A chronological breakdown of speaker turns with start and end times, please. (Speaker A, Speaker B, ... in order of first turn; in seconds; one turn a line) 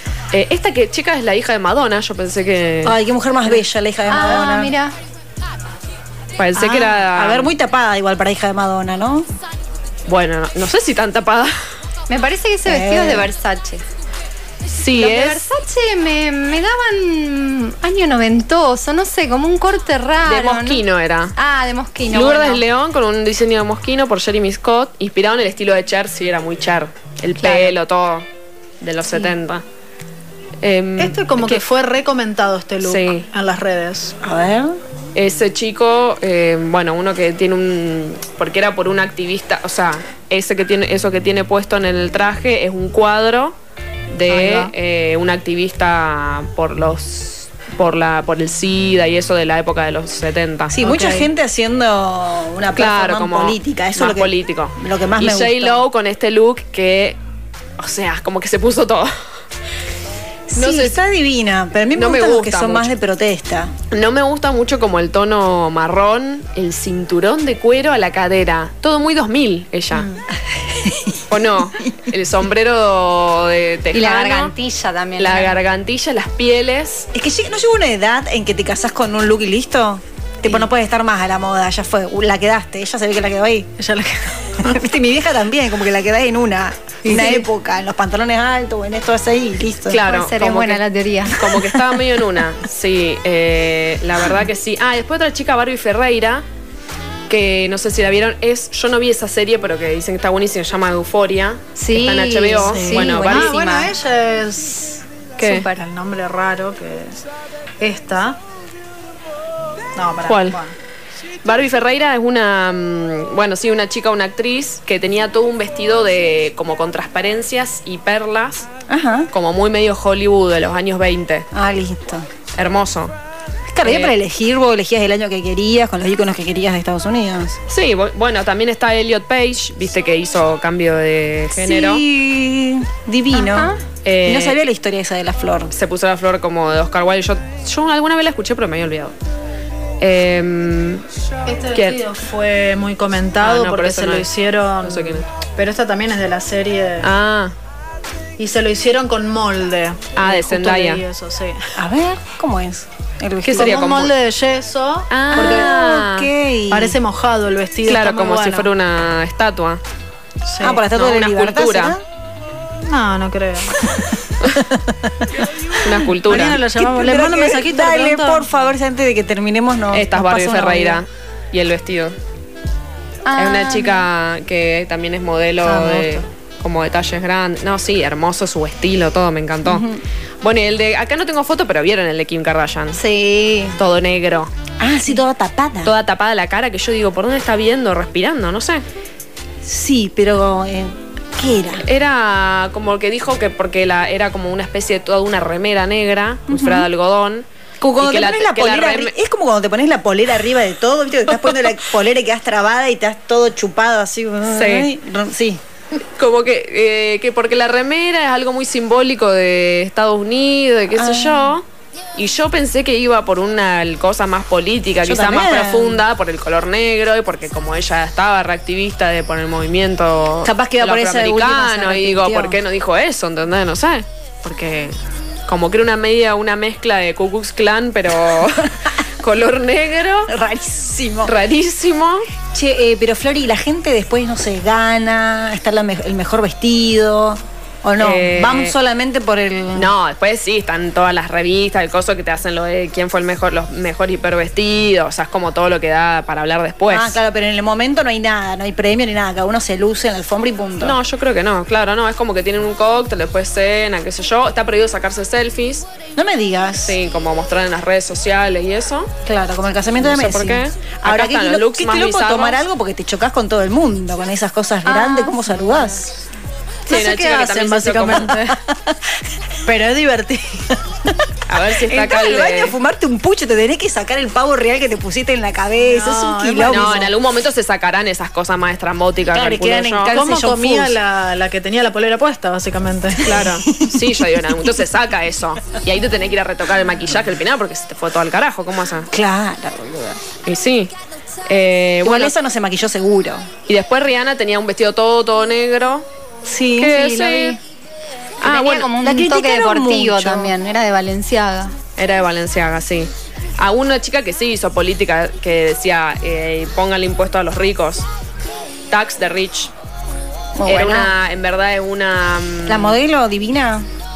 Speaker A: 0.3-3.0
Speaker B: 2.8-4.7
Speaker C: 4.1-5.0
Speaker A: 6.4-7.5
Speaker B: 6.6-9.3
Speaker A: 10.1-11.5
Speaker C: 12.1-13.8
Speaker B: 12.7-13.3
Speaker A: 14.7-15.4
Speaker C: 14.9-20.8
Speaker A: 20.2-21.4
Speaker C: 21.4-22.6
Speaker A: 22.1-28.3
Speaker C: 27.4-27.8
Speaker A: 28.8-29.6
Speaker A: 30.6-31.6
Speaker D: 31.0-34.2
Speaker A: 32.8-33.3
Speaker B: 34.2-34.8
Speaker A: 35.1-43.6
Speaker A: 44.1-50.8
Speaker D: 44.3-44.7
Speaker B: 50.7-55.9
Speaker D: 50.8-51.3
Speaker A: 52.8-57.2
Speaker A: 57.8-59.2
Speaker B: 60.5-63.7
Speaker A: 60.5-61.0
Speaker A: 61.9-62.9
Speaker A: 63.9-70.1
Speaker D: 69.9-70.2
Speaker B: 70.7-71.2
Speaker A: 71.3-74.5
Speaker C: 73.9-75.6
Speaker A: 75.2-77.1
Speaker B: 77.1-83.7
Speaker D: 83.8-84.7
Speaker B: 84.6-90.0
Speaker D: 87.0-87.5
Speaker A: 89.9-96.5
Speaker C: 90.0-91.5
Speaker A: 97.3-103.5
Speaker C: 101.8-103.9
Speaker D: 102.6-105.0
Speaker B: 103.2-103.7
Speaker A: 105.4-105.7
Speaker C: 105.4-105.8
Speaker D: 105.6-107.2
Speaker D: 107.8-108.4
Speaker D: 110.0-110.7
Speaker A: 110.3-110.6
Speaker A: 111.4-118.7
Speaker B: 118.9-119.3
Speaker A: 119.3-121.5
Speaker B: 121.5-122.3
Speaker A: 122.6-123.1
Speaker B: 123.7-127.6
Speaker A: 123.8-124.1
Speaker A: 127.7-132.1
Speaker B: 131.5-135.7
Speaker C: 133.3-133.8
Speaker A: 134.0-134.6
Speaker A: 135.7-139.2
Speaker A: 140.0-141.1
Speaker D: 141.4-147.1
Speaker A: 141.7-142.0
Speaker A: 143.4-144.3
Speaker A: 144.8-145.3
Speaker A: 147.0-147.6
Speaker D: 148.4-151.7
Speaker A: 150.2-151.0
Speaker B: 151.8-153.9
Speaker A: 153.4-154.1
Speaker D: 153.5-155.8
Speaker A: 155.1-156.3
Speaker B: 155.3-157.0
Speaker D: 156.7-158.7
Speaker A: 157.8-159.8
Speaker D: 160.5-160.8
Speaker B: 160.6-162.0
Speaker A: 160.9-162.0
Speaker D: 162.9-163.8
Speaker B: 164.5-165.3
Speaker A: 165.8-166.6
Speaker D: 166.2-168.5
Speaker B: 166.7-171.0
Speaker A: 169.9-172.2
Speaker C: 173.3-174.1
Speaker A: 173.4-179.9
Speaker C: 175.7-176.2
Speaker B: 179.7-180.0
Speaker A: 180.4-183.0
Speaker C: 183.0-183.8
Speaker A: 183.8-184.5
Speaker B: 184.8-185.9
Speaker A: 185.8-188.8
Speaker B: 189.6-191.8
Speaker A: 191.8-197.5
Speaker B: 196.5-196.9
Speaker B: 197.8-205.6
Speaker A: 198.0-199.1
Speaker A: 204.5-204.9
Speaker A: 206.2-211.7
Speaker B: 210.9-211.6
Speaker A: 212.2-230.3
Speaker B: 215.0-216.0
Speaker B: 220.4-222.6
Speaker B: 230.3-231.4
Speaker A: 231.2-232.3
Speaker B: 232.5-239.9
Speaker A: 238.0-238.8
Speaker A: 239.7-247.2
Speaker B: 246.9-251.0
Speaker A: 250.8-255.9
Speaker B: 256.2-257.0
Speaker A: 256.8-259.1
Speaker B: 259.2-266.2
Speaker A: 260.0-262.6
Speaker C: 264.9-265.9
Speaker A: 266.9-268.4
Speaker D: 266.9-268.6
Speaker B: 268.6-269.0
Speaker D: 269.6-270.7
Speaker A: 271.5-272.8
Speaker B: 271.8-277.1
Speaker D: 275.8-277.1
Speaker A: 276.7-280.2
Speaker B: 279.3-281.0
Speaker D: 280.1-283.5
Speaker A: 283.2-289.1
Speaker B: 283.4-284.6
Speaker B: 289.1-290.2
Speaker A: 290.4-290.9
Speaker A: 291.5-292.4
Speaker B: 292.0-293.5
Speaker A: 293.7-296.1
Speaker B: 296.4-297.1
Speaker A: 296.8-297.6
Speaker C: 296.9-297.6
Speaker A: 298.4-298.9
Speaker C: 298.4-301.7
Speaker B: 298.9-300.6
Speaker A: 302.0-308.1
Speaker A: 308.9-309.7
Speaker B: 310.6-311.1
Speaker A: 310.7-313.0
Speaker B: 312.7-313.9